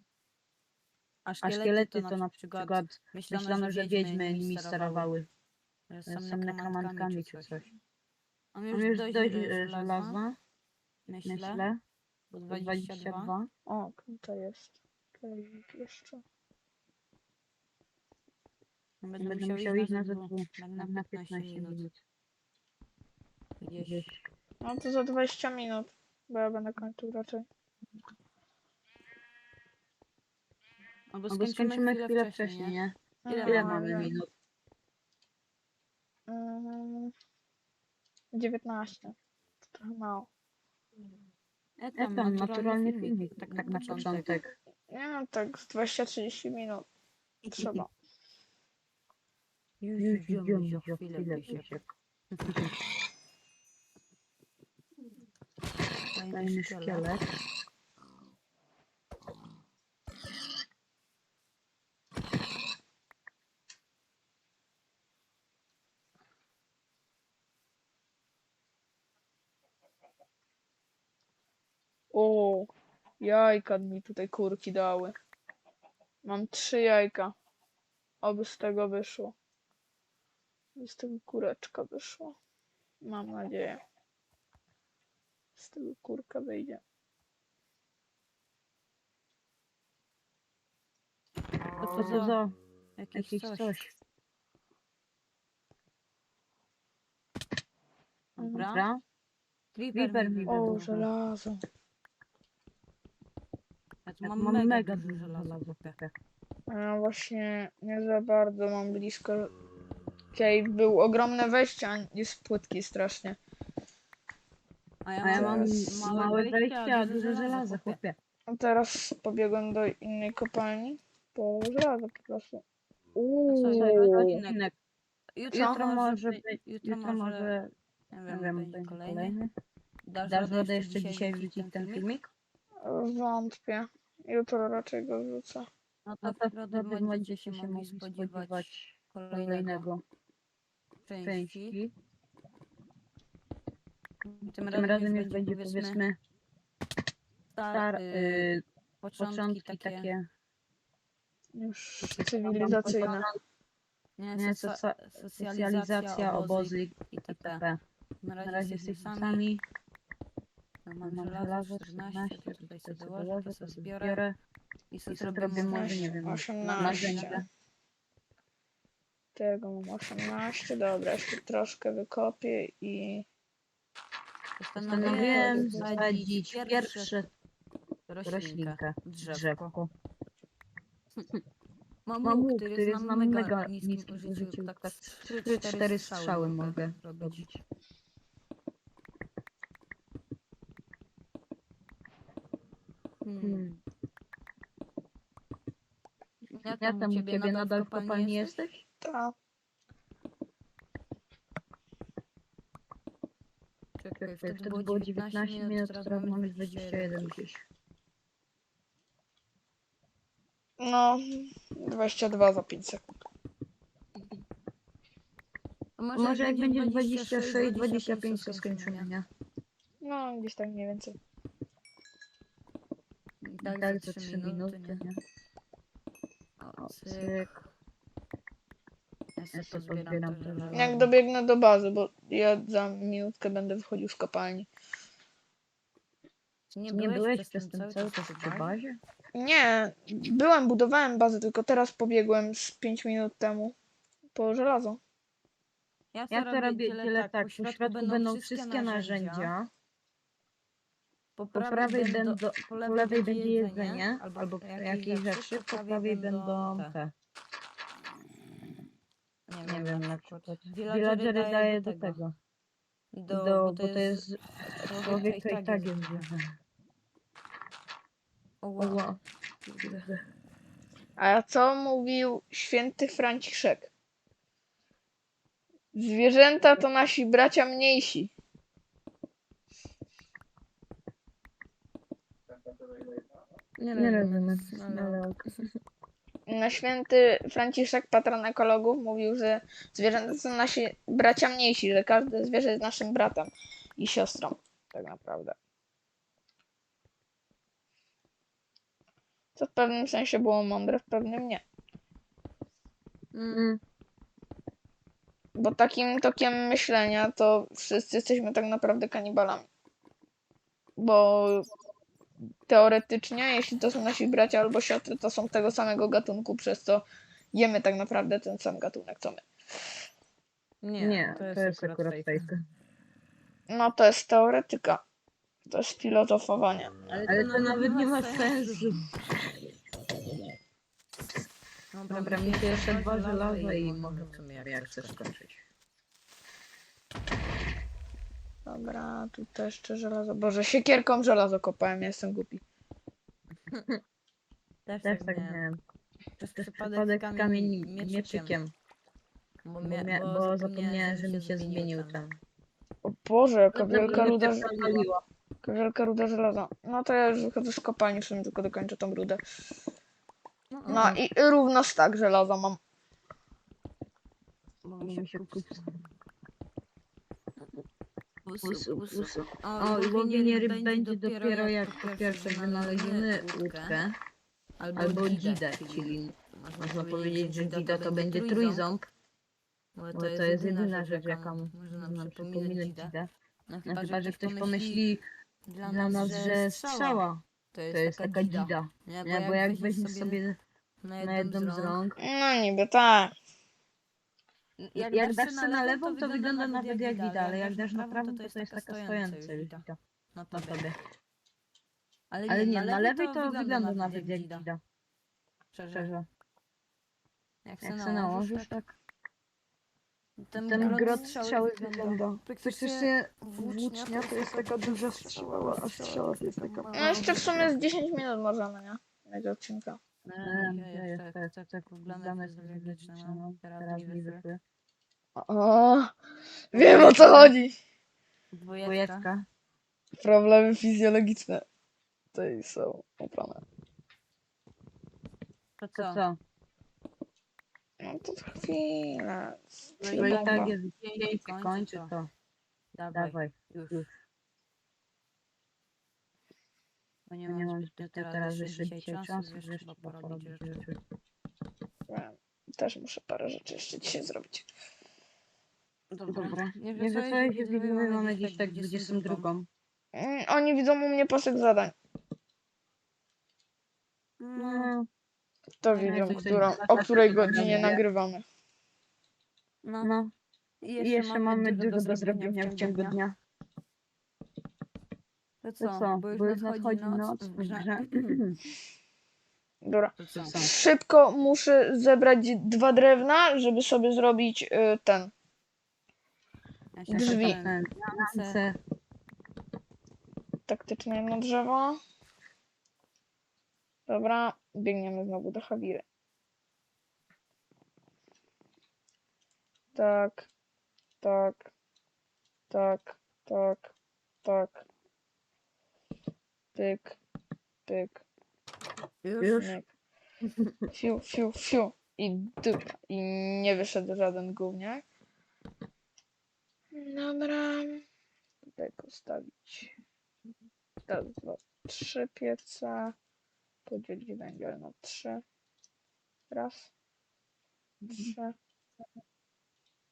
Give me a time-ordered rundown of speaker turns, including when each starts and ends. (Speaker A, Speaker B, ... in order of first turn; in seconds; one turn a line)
Speaker A: 1.3-5.1
Speaker B: 1.4-5.3
Speaker A: 5.9-7.7
Speaker B: 6.1-7.7
Speaker A: 8.6-10.2
Speaker B: 8.7-10.4
Speaker A: 11.1-11.7
Speaker B: 11.2-11.8
Speaker A: 12.3-13.3
Speaker B: 12.5-13.5
Speaker C: 13.7-16.2
Speaker A: 19.0-21.9
Speaker B: 19.2-22.0
Speaker A: 23.6-24.1
Speaker B: 23.8-24.2
Speaker C: 24.6-27.5
Speaker A: 31.1-34.2
Speaker B: 31.3-34.3
Speaker C: 33.2-34.1
Speaker C: 36.3-37.1
Speaker C: 38.3-39.1
Speaker C: 39.7-40.3
Speaker A: 41.8-44.4
Speaker B: 42.0-44.5
Speaker C: 44.0-46.9
Speaker C: 47.5-47.9
Speaker A: 49.8-51.8
Speaker B: 50.0-51.9
Speaker A: 52.3-52.7
Speaker B: 52.5-52.7
Speaker A: 56.1-57.1
Speaker B: 56.3-57.2
Speaker C: 72.1-75.2
Speaker C: 76.2-77.3
Speaker C: 78.2-79.3
Speaker C: 80.8-82.4
Speaker C: 83.0-83.8
Speaker C: 85.6-86.8
Speaker A: 91.7-92.4
Speaker B: 91.8-92.5
Speaker A: 93.0-93.7
Speaker B: 93.1-93.9
Speaker A: 98.4-98.9
Speaker C: 98.4-98.7
Speaker B: 98.5-99.0
Speaker A: 99.8-100.9
Speaker B: 99.9-101.1
Speaker C: 100.5-101.6
Speaker A: 104.1-106.0
Speaker B: 104.2-106.1
Speaker C: 106.7-109.5
Speaker C: 110.3-113.4
Speaker A: 115.0-118.0
Speaker B: 115.2-118.2
Speaker C: 115.3-115.8
Speaker C: 118.5-122.6
Speaker C: 123.2-124.4
Speaker A: 123.5-124.7
Speaker B: 123.7-124.7
Speaker A: 125.4-127.6
Speaker B: 125.5-127.7
Speaker A: 128.1-129.4
Speaker B: 128.3-129.5
Speaker A: 130.1-132.1
Speaker B: 130.3-132.3
Speaker C: 132.8-135.7
Speaker A: 136.1-139.9
Speaker B: 136.2-140.0
Speaker A: 141.1-141.8
Speaker B: 141.2-141.9
Speaker A: 144.2-146.0
Speaker B: 144.7-146.2
Speaker A: 147.6-148.5
Speaker B: 147.7-148.6
Speaker A: 149.0-150.1
Speaker B: 149.2-150.3
Speaker C: 151.6-153.3
Speaker A: 152.0-153.2
Speaker B: 152.4-153.3
Speaker A: 154.2-157.6
Speaker B: 154.3-157.8
Speaker A: 158.2-159.5
Speaker B: 158.4-159.6
Speaker A: 160.9-164.2
Speaker B: 161.0-164.3
Speaker A: 164.9-167.4
Speaker B: 165.1-167.5
Speaker C: 165.5-167.4
Speaker C: 169.4-173.3
Speaker A: 174.6-177.2
Speaker B: 174.8-177.3
Speaker C: 174.9-176.2
Speaker A: 178.1-179.7
Speaker B: 178.2-179.9
Speaker A: 182.1-187.5
Speaker B: 182.2-187.6
Speaker A: 193.2-193.7
Speaker B: 193.4-193.8
Speaker A: 196.5-198.6
Speaker B: 196.8-198.8
Speaker C: 199.0-199.3
Speaker A: 204.0-207.4
Speaker B: 204.2-207.6
Speaker C: 210.8-213.1
Speaker A: 216.0-219.1
Speaker B: 216.2-219.3
Speaker C: 220.0-221.2
Speaker A: 223.4-225.1
Speaker B: 223.6-225.2
Speaker A: 226.6-227.5
Speaker B: 226.9-227.5
Speaker A: 229.4-231.1
Speaker B: 229.5-231.1
Speaker C: 230.7-234.7
Speaker A: 236.8-238.8
Speaker B: 236.9-239.0
Speaker C: 239.3-243.8
Speaker C: 244.3-245.0
Speaker A: 246.1-249.5
Speaker B: 246.3-249.7
Speaker A: 251.4-257.0
Speaker B: 251.5-257.1
Speaker A: 259.5-262.2
Speaker B: 259.6-262.3
Speaker A: 263.1-264.3
Speaker B: 263.3-264.4
Speaker A: 264.8-266.3
Speaker B: 264.9-266.4
Speaker A: 268.6-269.1
Speaker B: 268.8-269.2
Speaker A: 269.7-270.1
Speaker B: 269.8-270.2
Speaker C: 271.2-273.9
Speaker C: 275.9-278.3
Speaker A: 283.8-285.4
Speaker B: 283.9-285.4
Speaker C: 286.5-295.6
Speaker C: 299.6-301.6
Speaker A: 303.4-303.7
Speaker B: 303.5-303.8
Speaker C: 305.6-309.7
Speaker C: 311.0-311.7
Speaker C: 312.7-319.4
Speaker A: 320.8-322.5
Speaker B: 321.0-322.6
Speaker C: 323.7-325.0
Speaker C: 325.7-327.1
Speaker A: 327.1-329.0
Speaker B: 327.3-329.0
Speaker A: 331.9-335.4
Speaker B: 332.1-335.6
Speaker C: 338.7-342.6
Speaker A: 344.9-345.6
Speaker B: 345.0-345.8
Speaker A: 346.4-348.6
Speaker B: 346.6-348.7
Speaker A: 349.7-352.3
Speaker B: 349.8-352.4
Speaker C: 353.0-354.8
Speaker A: 353.8-355.1
Speaker B: 353.8-355.2
Speaker C: 355.6-359.4
Speaker A: 360.7-361.2
Speaker C: 360.9-362.8
Speaker B: 360.9-361.2
Speaker A: 364.9-365.9
Speaker B: 365.0-365.8
Speaker A: 368.5-374.1
Speaker B: 368.6-374.1
Speaker A: 374.8-379.0
Speaker B: 375.0-379.0
Speaker A: 380.0-383.2
Speaker B: 380.1-383.3
Speaker A: 383.7-385.1
Speaker B: 383.9-385.2
Speaker A: 385.7-390.4
Speaker B: 385.8-390.6
Speaker A: 391.0-392.0
Speaker B: 391.2-392.2
Speaker C: 392.2-393.3
Speaker A: 394.8-400.8
Speaker B: 394.9-400.0
Speaker B: 400.5-401.0
Speaker A: 402.3-404.7
Speaker B: 402.5-404.8
Speaker A: 405.7-406.1
Speaker B: 405.9-406.3
Speaker A: 407.6-408.8
Speaker B: 407.8-408.9
Speaker A: 410.4-417.7
Speaker B: 410.6-417.5
Speaker C: 410.7-411.3
Speaker C: 416.9-420.0
Speaker A: 420.3-424.4
Speaker B: 420.4-424.6
Speaker C: 425.4-426.1
Speaker C: 426.7-427.7
Speaker A: 426.7-427.5
Speaker A: 428.5-429.3
Speaker B: 428.8-429.5
Speaker C: 430.2-431.6
Speaker C: 432.3-433.6
Speaker A: 435.8-436.2
Speaker B: 435.9-436.4
Speaker C: 438.0-440.8
Speaker A: 440.0-442.1
Speaker B: 440.2-442.3
Speaker A: 442.9-444.1
Speaker B: 443.1-444.1
Speaker A: 447.3-450.9
Speaker B: 447.5-451.0
Speaker C: 452.1-454.7
Speaker A: 456.1-459.5
Speaker B: 456.3-459.7
Speaker C: 460.1-461.9
Speaker A: 464.4-464.9
Speaker B: 464.6-465.1
Speaker C: 465.8-468.4
Speaker A: 465.9-468.0
Speaker B: 465.9-468.0
Speaker A: 469.9-470.1
Speaker B: 470.0-470.3
Speaker A: 470.8-473.2
Speaker B: 471.0-473.4
Speaker A: 475.6-478.4
Speaker B: 475.8-478.6
Speaker C: 479.8-485.3
Speaker A: 480.2-480.7
Speaker B: 480.4-480.7
Speaker A: 487.0-488.6
Speaker B: 487.1-488.8
Speaker C: 487.1-487.6
Speaker C: 490.7-492.0
Speaker C: 494.1-496.1
Speaker C: 499.9-500.5
Speaker C: 501.2-501.7
Speaker C: 502.7-503.9
Speaker C: 504.4-504.9
Speaker C: 506.8-507.2
Speaker C: 507.9-508.2
Speaker A: 509.2-509.8
Speaker C: 509.5-509.9
Speaker C: 510.9-515.0
Speaker C: 516.9-518.0
Speaker C: 518.8-519.9
Speaker C: 521.1-523.2
Speaker C: 523.9-525.4
Speaker C: 526.5-526.9
Speaker C: 528.1-528.5